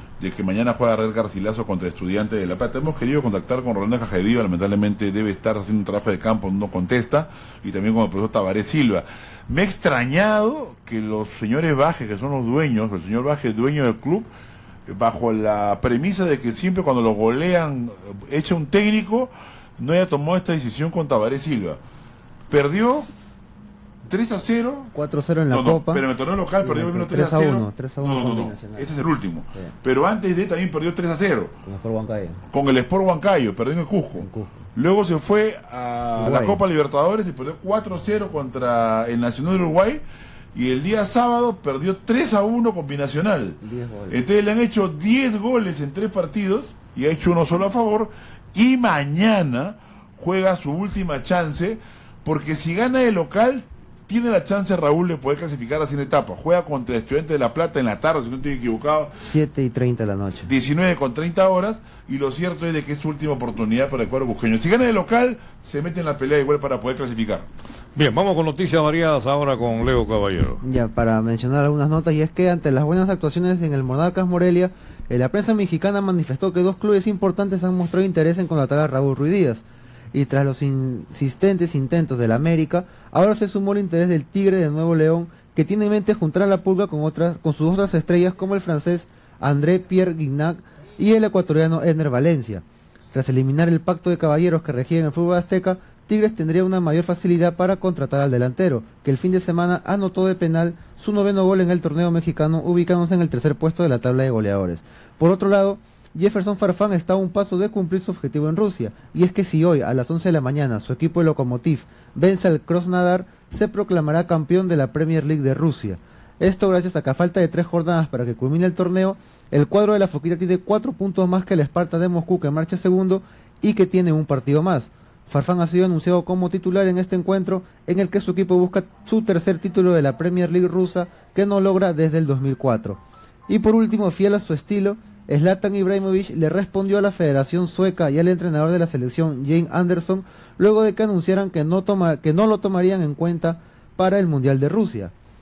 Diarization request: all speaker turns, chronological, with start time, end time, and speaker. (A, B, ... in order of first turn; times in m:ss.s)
0:00.2-0:14.3 A
0:14.9-0:21.8 A
0:22.5-0:23.1 A
0:24.1-0:24.9 A
0:24.9-0:26.0 B
0:25.5-0:31.6 A
0:26.6-0:29.0 B
0:31.6-0:32.4 B
0:32.5-0:40.0 A
0:34.2-0:34.6 B
0:36.2-0:36.6 B
0:40.5-0:59.1 A
0:43.6-0:44.1 B
0:59.2-1:00.5 B
1:00.4-1:07.4 A
1:08.0-1:10.6 C
1:10.6-2:25.1 B